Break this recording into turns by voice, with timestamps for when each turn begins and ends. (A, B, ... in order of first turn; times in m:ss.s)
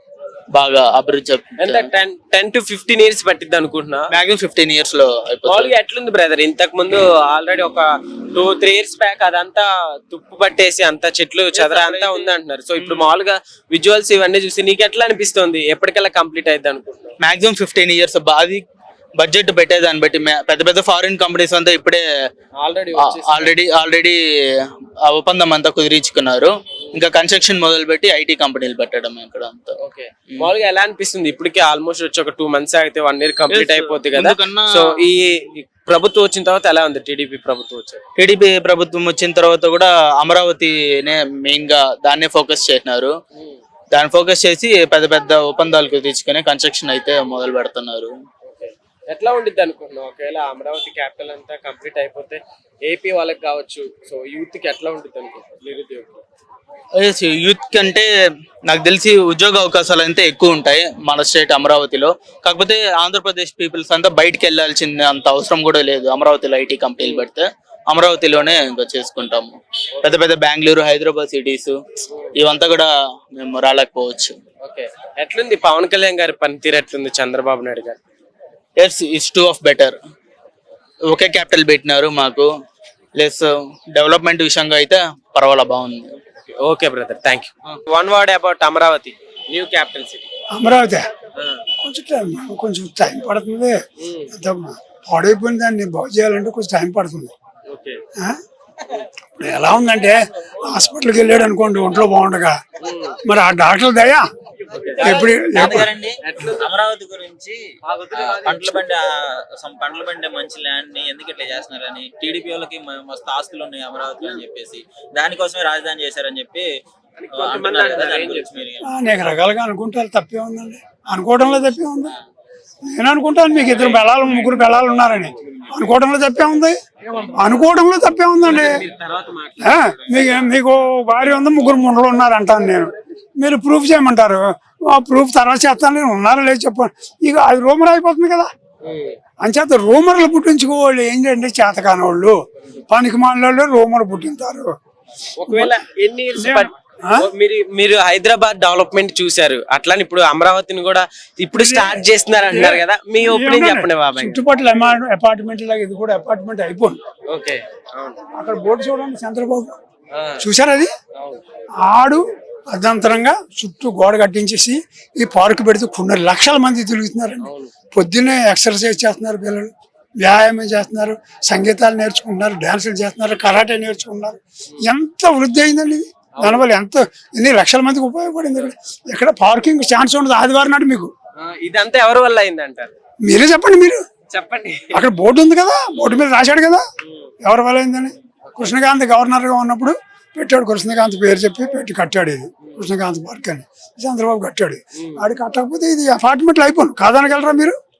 0:00.5-0:01.9 A
0:01.6-0:04.1 B
0:04.1-0:05.7 A
0:05.4-0:17.1 B
0:11.6-0:12.3 C
0:12.8-0:13.1 A
0:17.2-0:18.6 A
0:19.2-0:22.0 A
0:22.6-0:23.5 B
0:23.1-0:24.2 A
0:25.0-0:29.7 A
0:29.8-0:38.0 B
0:33.5-0:34.8 A
0:38.2-0:43.1 A
0:43.9-0:48.1 A
0:48.4-0:56.2 B
0:57.0-0:58.1 A
0:58.7-1:11.8 A
1:12.4-1:14.4 A
1:14.6-1:18.0 B
1:18.8-1:20.0 A
1:21.1-1:22.5 A
1:23.2-1:26.1 A
1:26.5-1:30.2 B
1:30.5-1:31.1 D
1:31.8-1:33.8 D
1:34.0-1:34.3 B
1:34.3-1:37.3 D
1:37.7-1:38.0 B
1:39.4-1:42.6 D
1:42.8-1:43.2 B
1:43.2-1:44.2 D
1:44.7-1:45.7 B
1:45.0-1:46.0 D
1:45.0-1:47.6 C
1:46.2-1:46.7 B
1:47.9-1:48.8 B
1:48.1-1:56.7 C
1:57.2-1:58.6 B
1:57.3-1:58.8 C
1:58.8-2:02.1 D
2:02.8-2:06.8 D
2:07.3-2:08.8 D
2:08.4-2:10.4 B
2:09.6-2:18.5 D
2:18.8-2:19.2 B
2:19.4-2:24.7 D
2:25.4-2:34.4 B
2:26.4-2:27.3 D
2:31.5-2:37.0 D
2:37.3-2:38.2 B
2:38.4-2:39.8 D
2:40.1-2:40.4 B
2:40.4-2:40.9 D
2:41.8-3:01.1 D
2:47.4-2:47.7 B
2:56.4-2:56.6 B
3:01.4-3:02.9 B
3:03.2-3:04.0 D
3:04.3-3:05.0 B
3:04.9-3:06.8 D
3:07.4-3:17.8 D